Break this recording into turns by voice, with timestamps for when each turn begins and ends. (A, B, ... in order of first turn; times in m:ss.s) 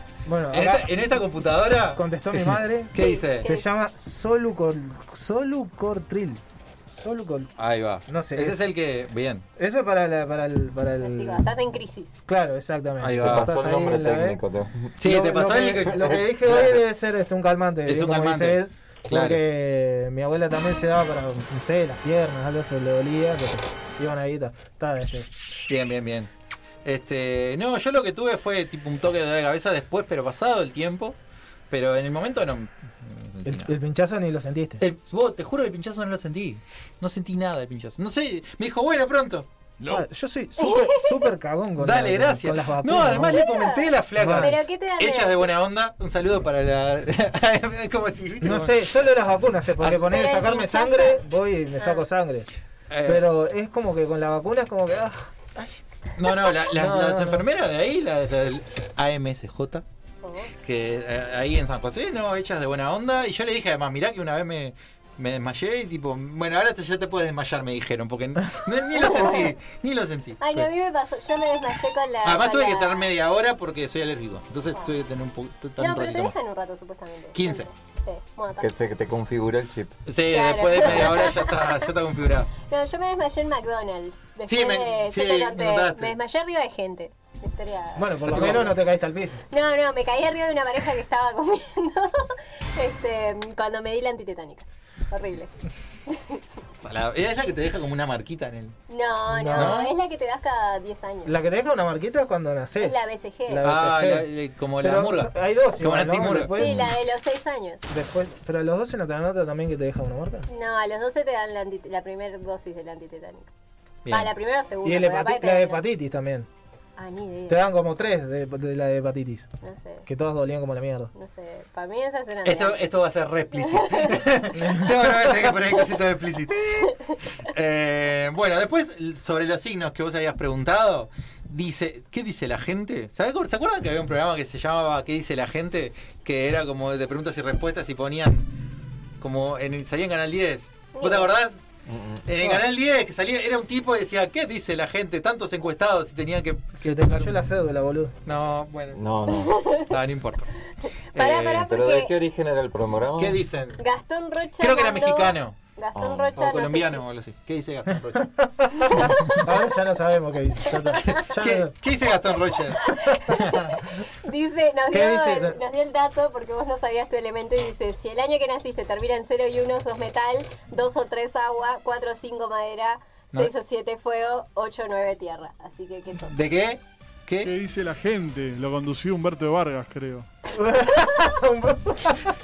0:00.3-0:00.9 A
0:00.5-0:03.5 B
0:02.0-0:07.5 A
0:03.0-0:03.6 C
0:07.6-0:09.4 B
0:08.1-0:08.6 A
0:09.6-0:11.5 A
0:11.0-0:12.2 C
0:12.3-0:14.4 A
0:13.0-0:13.5 B
0:13.2-0:14.9 D
0:15.0-0:16.8 B
0:15.0-0:25.3 A
0:17.9-0:19.4 B
0:25.7-0:26.3 B
0:26.8-0:31.2 B
0:31.7-0:33.7 B
0:33.5-0:34.8 A
0:34.8-0:39.5 B
0:39.9-0:43.4 A
0:40.6-0:41.3 C
0:41.8-0:48.8 B
0:43.3-0:45.5 C
0:44.2-0:44.6 A
0:48.4-0:52.5 A
0:49.8-0:50.1 B
0:50.1-0:51.2 C
0:51.8-0:52.0 C
0:52.9-0:53.3 B
0:53.1-0:55.8 A
0:56.2-0:59.8 B
0:56.7-0:57.4 A
1:00.2-1:00.5 C
1:00.6-1:10.7 B
1:09.0-1:09.5 C
1:10.4-1:13.1 C
1:12.2-1:16.3 B
1:15.8-1:18.7 C
1:17.4-1:17.7 B
1:18.6-1:20.0 D
1:20.1-1:22.5 B
1:20.3-1:21.8 C
1:20.8-1:21.1 D
1:22.7-1:28.7 C
1:24.5-1:26.1 B
1:28.0-1:29.4 A
1:28.3-1:28.8 B
1:29.5-1:35.5 C
1:36.1-1:36.4 C
1:36.8-1:38.8 B
1:38.9-1:41.3 C
1:39.3-1:39.8 A
1:39.5-1:39.9 B
1:41.2-1:44.3 A
1:42.8-1:43.7 C
1:43.6-1:46.8 B
1:44.8-1:47.0 A
1:46.6-1:47.8 C
1:47.9-1:50.5 A
1:50.5-1:53.5 C
1:54.0-1:54.3 B
1:54.1-1:55.8 C
1:54.8-1:56.5 A
1:57.0-1:57.6 C
1:57.5-1:59.5 A
1:59.6-2:00.1 C
2:00.1-2:01.1 A
2:01.1-2:02.8 C
2:02.4-2:18.5 B
2:03.6-2:04.2 C
2:04.5-2:05.5 A
2:06.8-2:07.2 C
2:19.2-2:21.6 B
2:20.9-2:21.3 C
2:21.9-2:22.3 D
2:22.3-2:27.4 B
2:26.8-2:28.1 A
2:28.3-2:29.0 B
2:28.9-2:29.6 D
2:29.3-2:29.9 C
2:29.9-2:30.5 B
2:31.2-2:31.7 B
2:31.2-2:32.1 C
2:31.6-2:33.4 D
2:33.2-2:33.8 B
2:33.8-2:37.0 C
2:34.6-2:35.6 B
2:36.0-2:36.4 D
2:36.4-2:38.3 B
2:38.6-2:41.7 A
2:38.8-2:39.2 C
2:38.9-2:39.5 B
2:41.0-2:43.6 B
2:42.8-2:56.3 C
2:44.9-2:45.6 A
2:56.3-2:57.5 B
2:57.4-3:00.3 E
3:00.5-3:02.3 A